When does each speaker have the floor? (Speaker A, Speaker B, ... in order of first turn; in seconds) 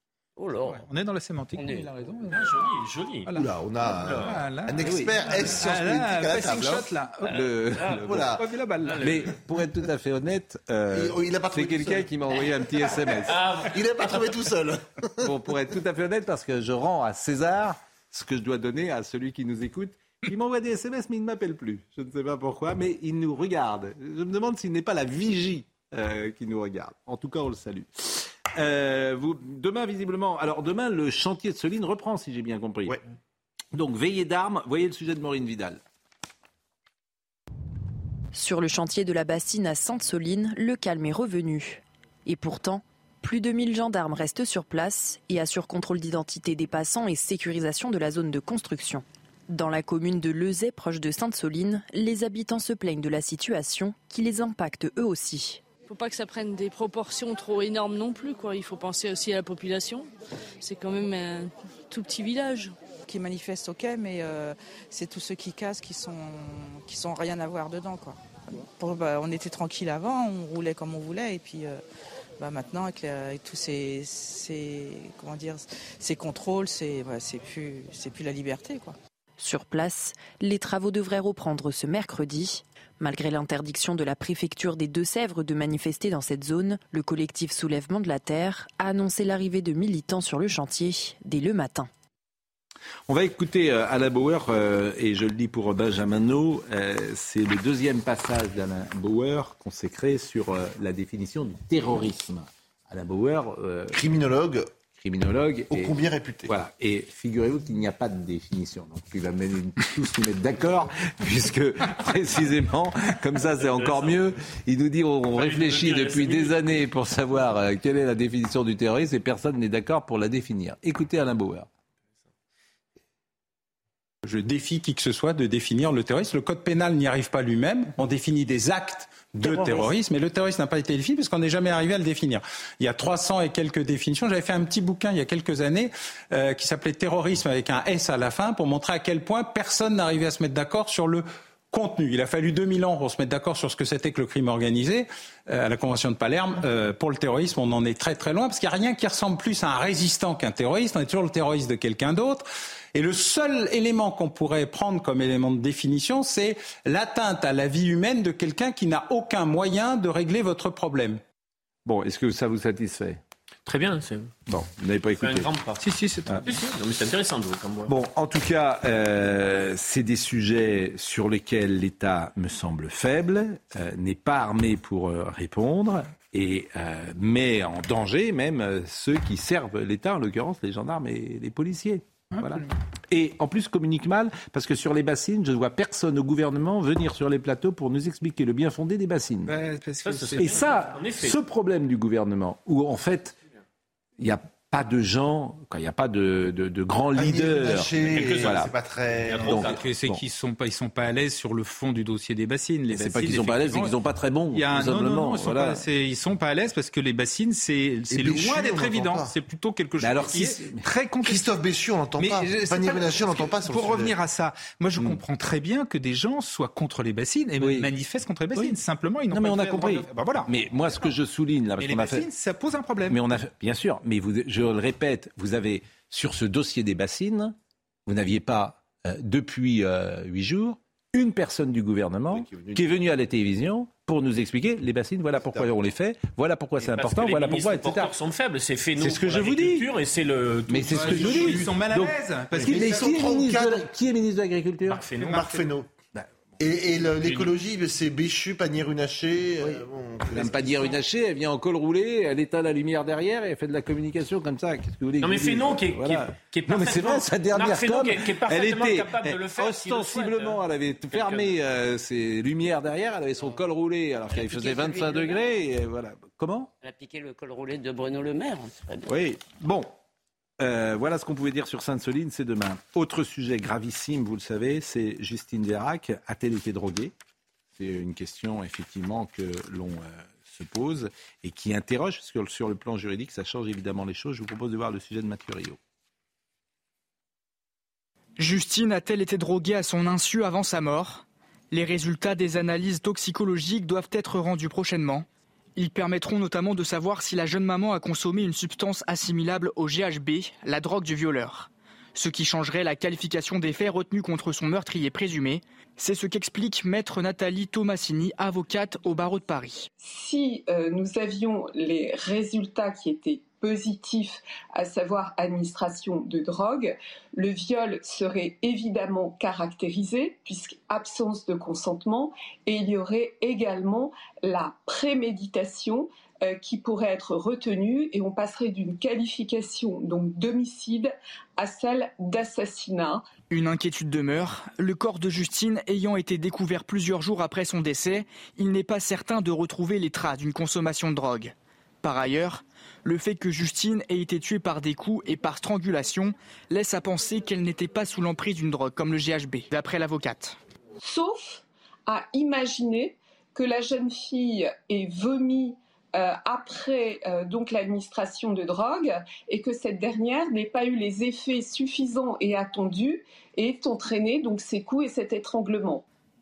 Speaker A: 0.4-0.8, 1.5-2.3, 264.3-265.6, 266.8-269.1
Speaker B: 0.7-2.5, 4.1-7.4, 8.4-9.2, 165.8-166.5, 182.3-182.7, 189.4-190.8, 199.6-203.9, 204.5-211.5, 212.2-220.5, 221.8-223.3, 240.9-243.2, 245.0-245.7
Speaker C: 2.3-3.3, 3.8-4.4, 8.8-9.3, 13.2-14.1, 113.6-114.2, 115.3-116.8, 163.7-164.3, 165.2-167.9, 190.0-191.4, 198.1-198.6, 199.3-199.7, 236.8-241.6, 244.9-245.3, 247.2-247.5, 255.2-261.6
Speaker D: 3.3-6.9, 7.8-8.4, 10.9-12.9, 13.6-15.3, 103.9-104.7, 105.7-106.5, 197.1-199.7, 208.1-209.3, 211.2-214.1, 232.3-232.9, 241.1-241.7, 242.5-243.8, 245.3-245.9, 246.6-251.0
Speaker E: 4.8-5.1, 6.4-8.4, 8.9-13.4, 15.2-33.0, 33.7-35.8, 93.1-104.0, 104.9-105.9, 106.5-121.7, 161.8-163.2, 164.5-165.5, 167.9-189.5, 190.4-193.3, 194.2-198.7, 199.4-200.2, 202.9-205.8, 210.0-210.8, 217.6-217.9, 219.3-222.3, 223.1-238.1, 239.0-239.9, 240.7-245.1, 250.3-266.7, 269.1-269.9, 270.6-277.1, 277.7-285.8
Speaker F: 38.3-55.6, 79.4-91.9
Speaker G: 55.9-60.1, 60.6-62.7
Speaker H: 63.1-71.8, 72.4-79.0
Speaker I: 124.2-161.2
Speaker J: 288.4-295.2, 295.8-309.9, 333.5-350.6
Speaker K: 310.0-333.3, 351.0-366.0